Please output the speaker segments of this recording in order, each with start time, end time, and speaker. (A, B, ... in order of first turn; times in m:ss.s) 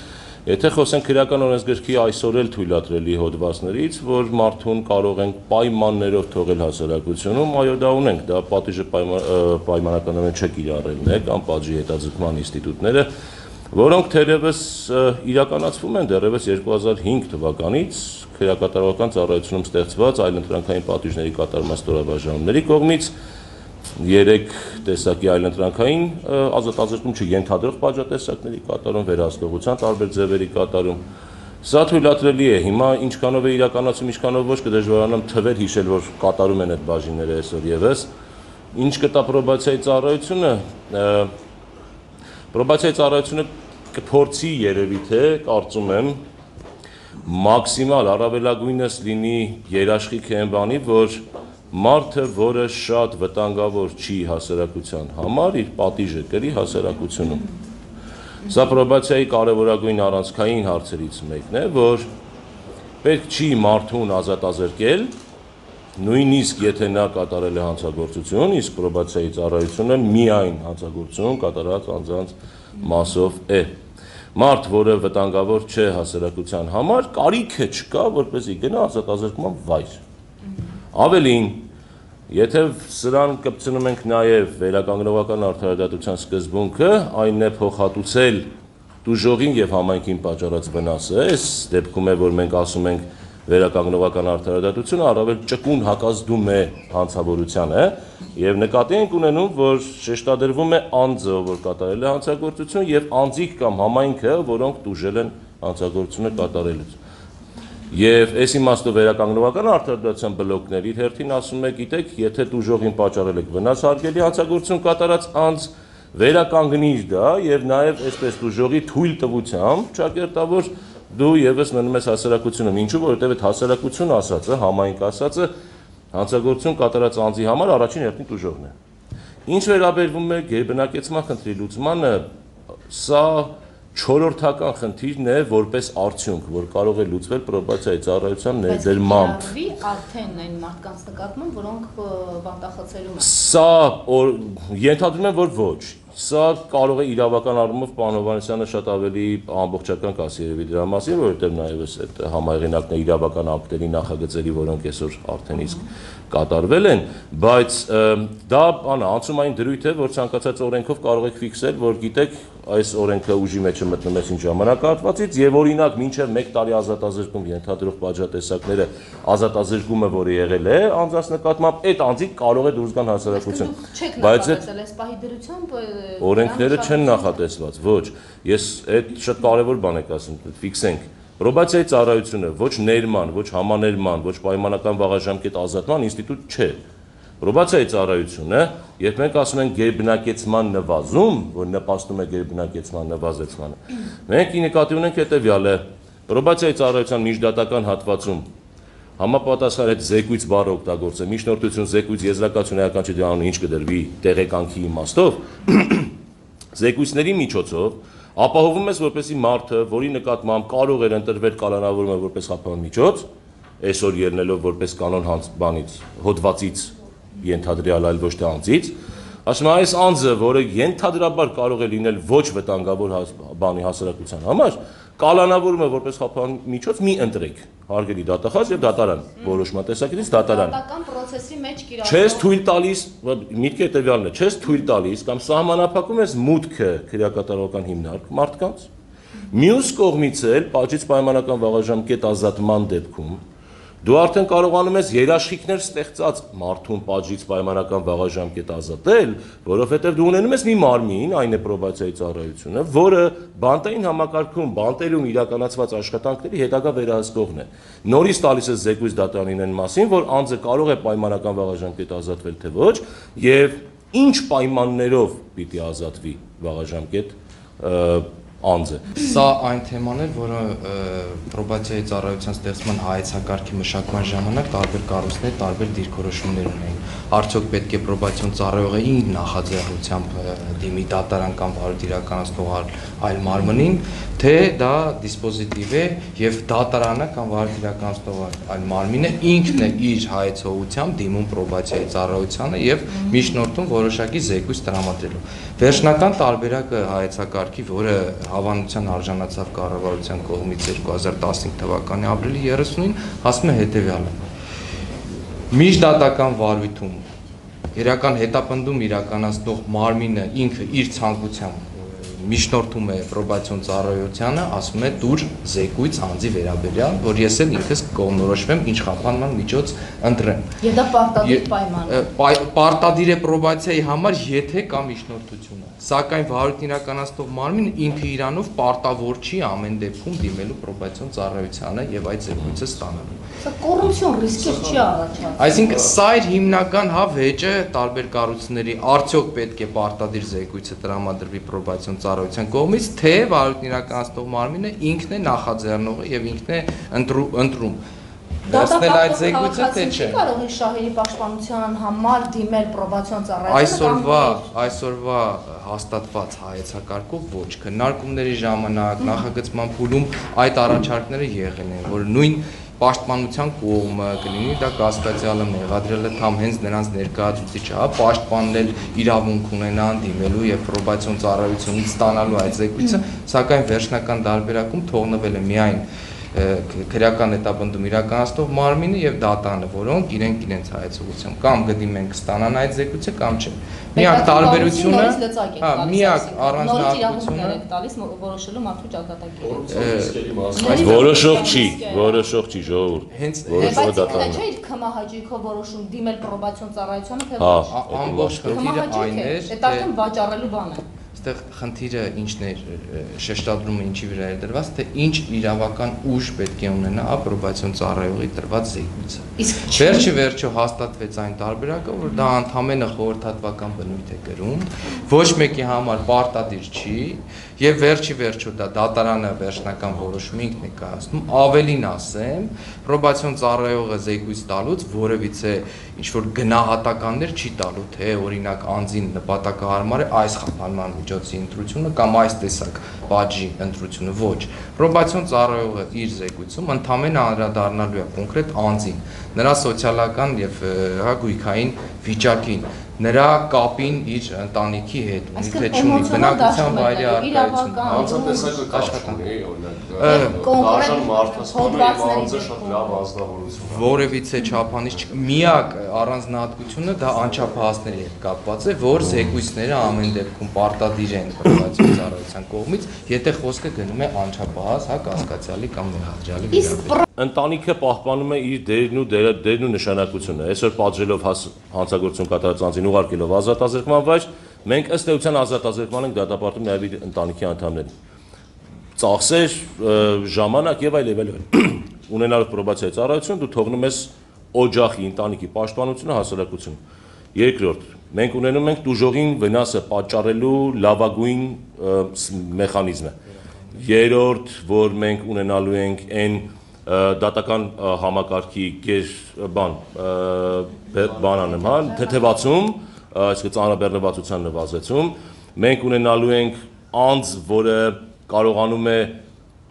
0:00.5-0:13.1 A
0:13.7-0:23.1 A
0:24.0-0:31.0 A
0:31.6-0:38.1 A
0:38.7-0:41.3 A
0:42.5-0:46.2 A
0:47.2-0:57.5 A
0:58.4-1:02.1 A
1:03.0-1:05.1 A
1:06.0-1:13.7 A
1:14.4-1:20.0 A
1:20.9-1:21.7 A
1:22.3-1:28.5 A
1:29.0-1:47.0 A
1:47.9-2:05.5 A
2:06.1-2:08.7 A
2:09.5-2:12.3 A
2:12.9-2:19.5 A
2:18.7-2:23.3 B
2:23.2-2:54.6 A
2:53.3-2:57.4 B
2:56.2-3:06.8 A
3:07.4-3:13.8 A
3:14.3-3:18.5 A
3:19.2-3:26.1 A
3:26.7-3:33.2 A
3:33.8-3:38.9 A
3:39.5-3:50.8 A
3:50.2-3:52.5 B
3:52.0-3:58.9 A
3:59.5-4:03.4 A
4:04.0-4:29.2 A
4:29.2-5:04.4 C
5:05.7-5:07.2 C
5:08.0-5:20.8 C
5:20.8-5:22.3 B
5:21.4-5:33.4 C
5:33.6-5:35.8 B
5:34.6-5:35.2 D
5:35.6-5:48.0 C
5:48.6-5:50.4 C
5:48.7-5:54.7 B
5:53.7-6:27.8 C
6:24.2-6:30.1 B
6:29.6-6:31.6 D
6:29.9-6:31.4 C
6:30.7-6:32.4 B
6:30.9-6:34.6 A
6:33.3-6:34.5 C
6:33.8-6:37.9 B
6:37.6-6:38.8 A
6:37.9-6:40.1 C
6:38.6-6:41.1 B
6:41.3-7:29.4 C
6:49.6-6:50.3 B
7:25.6-7:28.8 B
7:28.1-7:34.2 D
7:30.2-7:30.6 C
7:30.2-7:33.3 B
7:33.8-7:47.2 C
7:46.9-7:47.2 B
7:47.4-7:58.1 A
7:59.2-8:07.0 A
8:07.5-8:13.4 A
8:14.0-8:29.4 A